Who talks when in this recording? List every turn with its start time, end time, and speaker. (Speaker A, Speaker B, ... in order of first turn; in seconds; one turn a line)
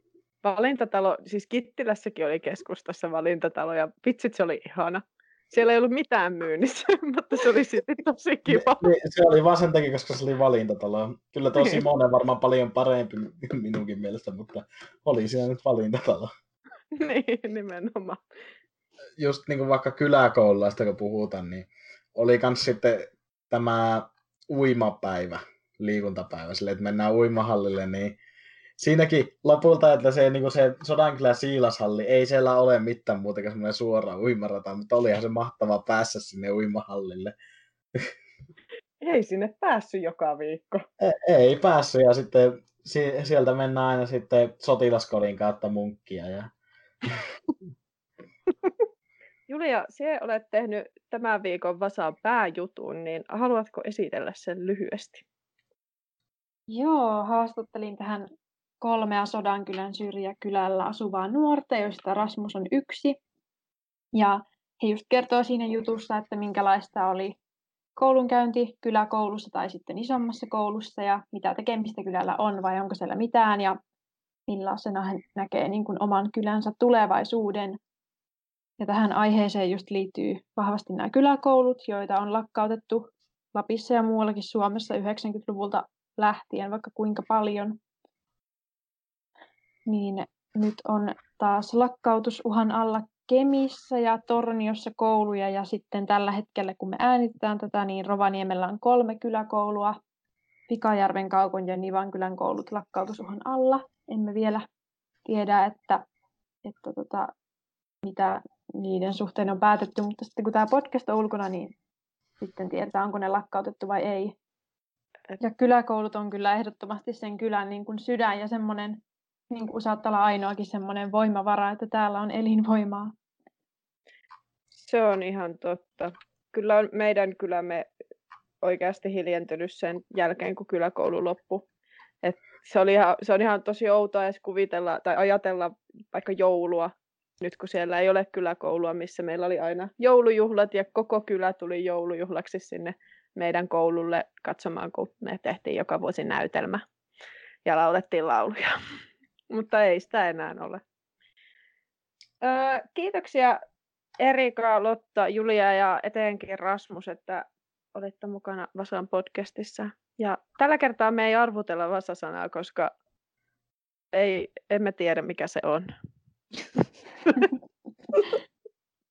Speaker A: 0.4-8.8
Speaker B: 8.5-16.3
Speaker A: 16.9-18.2
Speaker B: 19.2-28.2
Speaker B: 28.8-37.3
Speaker A: 39.0-40.9
Speaker B: 41.0-46.5
Speaker A: 49.5-55.2
Speaker C: 56.7-58.3
Speaker C: 58.8-63.2
Speaker C: 64.1-67.3
Speaker C: 68.0-73.8
Speaker C: 74.5-77.8
Speaker C: 78.8-87.8
Speaker C: 89.9-100.0
Speaker C: 100.7-104.7
Speaker C: 105.2-106.0
Speaker C: 106.6-107.3
Speaker C: 108.0-111.7
Speaker C: 112.4-114.3
Speaker C: 115.4-123.1
Speaker A: 124.8-127.9
Speaker A: 128.6-131.6
Speaker A: 132.2-146.8
Speaker A: 147.6-148.7
Speaker A: 149.5-150.8
Speaker A: 152.4-153.6
Speaker A: 154.2-162.9
Speaker A: 164.1-165.9
Speaker A: 167.2-167.5